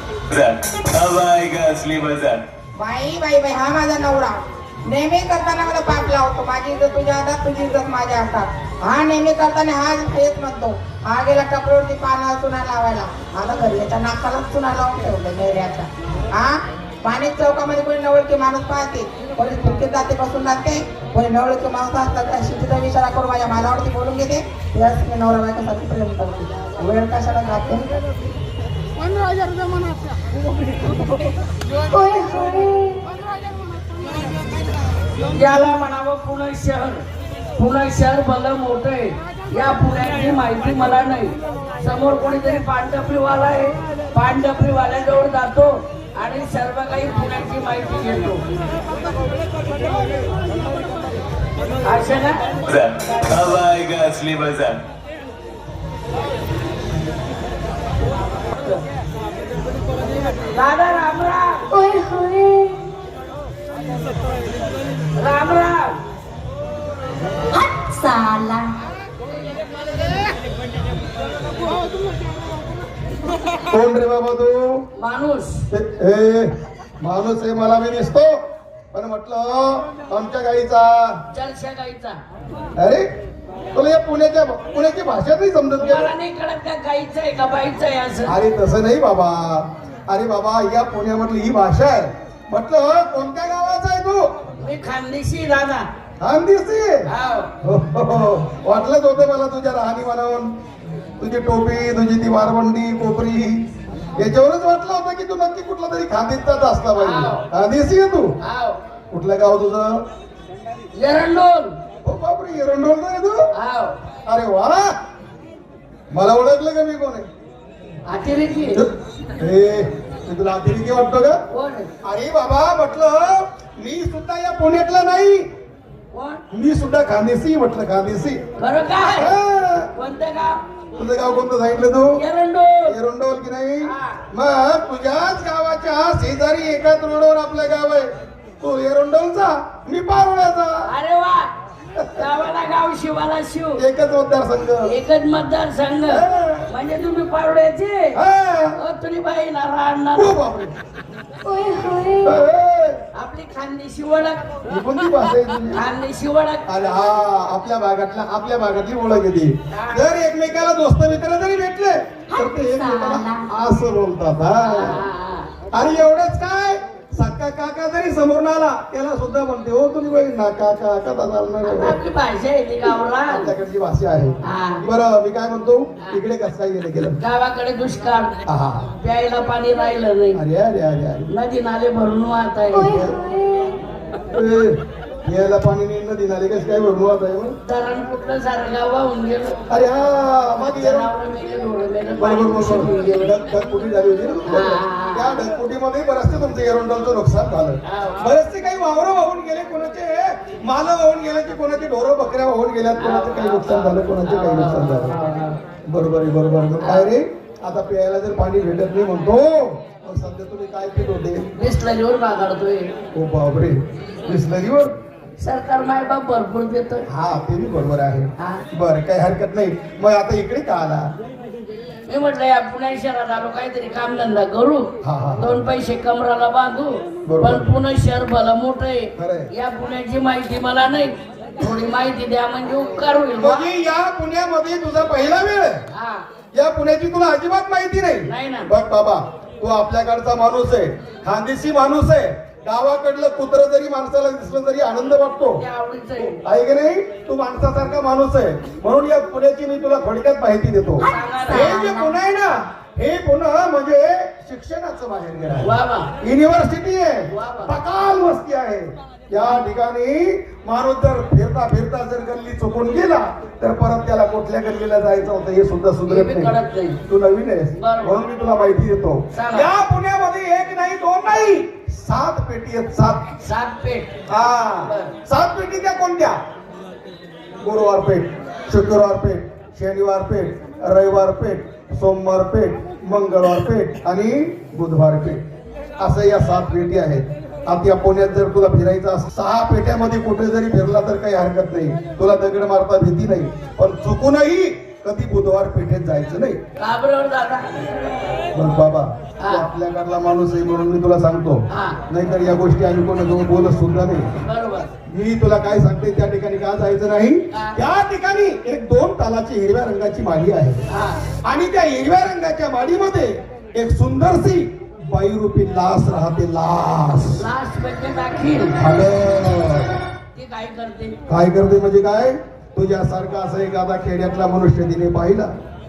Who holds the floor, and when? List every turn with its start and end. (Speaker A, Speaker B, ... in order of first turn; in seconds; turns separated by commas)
Speaker A: 0.3-2.4, Speaker B: 2.8-27.9, Speaker C: 31.9-33.0, Speaker D: 35.3-37.0, Speaker D: 37.6-48.4, Speaker D: 51.8-52.4, Speaker A: 52.6-54.8, Speaker D: 58.5-58.8, Speaker D: 60.5-61.6, Speaker C: 61.7-62.7, Speaker D: 65.2-66.0, Speaker C: 67.8-68.7, Speaker E: 73.7-74.6, Speaker D: 75.0-75.6, Speaker E: 75.7-78.3, Speaker E: 78.9-81.2, Speaker D: 81.3-82.2, Speaker E: 82.8-83.0, Speaker E: 83.7-86.1, Speaker D: 85.8-88.3, Speaker E: 88.2-94.2, Speaker D: 94.6-95.8, Speaker E: 96.2-97.1, Speaker D: 97.1-97.5, Speaker E: 97.6-100.5, Speaker E: 101.2-103.6, Speaker E: 104.2-108.3, Speaker D: 107.0-107.5, Speaker D: 108.4-108.8, Speaker E: 109.1-110.0, Speaker D: 111.0-111.8, Speaker E: 112.0-113.4, Speaker D: 113.5-114.0, Speaker E: 114.3-114.8, Speaker E: 116.1-117.3, Speaker D: 118.1-118.8, Speaker E: 118.7-121.4, Speaker D: 121.5-121.9, Speaker E: 122.0-125.5, Speaker D: 126.1-126.4, Speaker E: 126.5-128.4, Speaker D: 128.6-129.3, Speaker E: 129.0-129.9, Speaker D: 129.9-130.6, Speaker E: 130.9-132.2, Speaker D: 132.2-132.9, Speaker E: 132.9-140.9, Speaker D: 133.8-134.2, Speaker D: 140.9-141.5, Speaker E: 141.9-142.3, Speaker D: 142.1-143.8, Speaker E: 143.8-144.9, Speaker D: 144.8-148.1, Speaker E: 146.1-146.7, Speaker E: 148.1-148.8, Speaker D: 148.8-150.3, Speaker E: 150.1-150.7, Speaker C: 151.4-152.3, Speaker E: 152.2-153.0, Speaker D: 153.1-154.6, Speaker E: 154.7-155.8, Speaker D: 155.7-156.7, Speaker E: 156.7-165.0, Speaker D: 159.7-160.1, Speaker C: 162.3-163.4, Speaker D: 164.6-165.5, Speaker E: 165.7-171.9, Speaker D: 171.6-173.5, Speaker E: 173.2-177.2, Speaker D: 174.5-174.8, Speaker D: 177.2-178.3, Speaker E: 178.4-178.9, Speaker D: 179.0-180.4, Speaker E: 180.3-181.3, Speaker D: 181.3-183.1, Speaker E: 182.7-183.2, Speaker C: 182.8-183.8, Speaker E: 184.3-187.5, Speaker D: 187.6-189.6, Speaker E: 189.7-191.1, Speaker D: 190.6-193.4, Speaker E: 192.2-205.2, Speaker D: 194.5-195.4, Speaker D: 197.8-198.3, Speaker D: 202.9-205.6, Speaker E: 205.8-211.5, Speaker D: 206.8-207.1, Speaker D: 211.6-212.9, Speaker E: 213.1-214.9, Speaker D: 215.4-217.0, Speaker E: 217.1-221.1, Speaker D: 222.1-233.7, Speaker E: 225.0-225.5, Speaker E: 227.2-227.7, Speaker E: 229.1-229.5, Speaker E: 233.4-235.8, Speaker D: 235.9-236.2, Speaker E: 236.6-245.6, Speaker D: 238.2-238.7, Speaker D: 245.6-246.4, Speaker E: 246.2-255.7, Speaker D: 251.1-251.9, Speaker D: 255.6-256.1, Speaker E: 256.2-273.3, Speaker D: 257.3-257.7, Speaker D: 266.1-267.0, Speaker D: 267.8-268.2, Speaker D: 269.3-269.7, Speaker D: 273.4-274.2, Speaker E: 274.3-276.4, Speaker D: 274.8-275.1, Speaker E: 277.6-285.4, Speaker E: 286.0-296.6, Speaker D: 296.8-297.7, Speaker E: 298.5-304.3, Speaker D: 299.4-299.7, Speaker D: 301.7-302.0, Speaker D: 304.4-304.9, Speaker E: 305.1-310.8, Speaker D: 307.5-307.8, Speaker D: 310.9-311.2, Speaker E: 311.4-317.4, Speaker D: 317.4-318.8, Speaker E: 318.8-319.9, Speaker D: 320.3-321.2, Speaker E: 321.3-325.5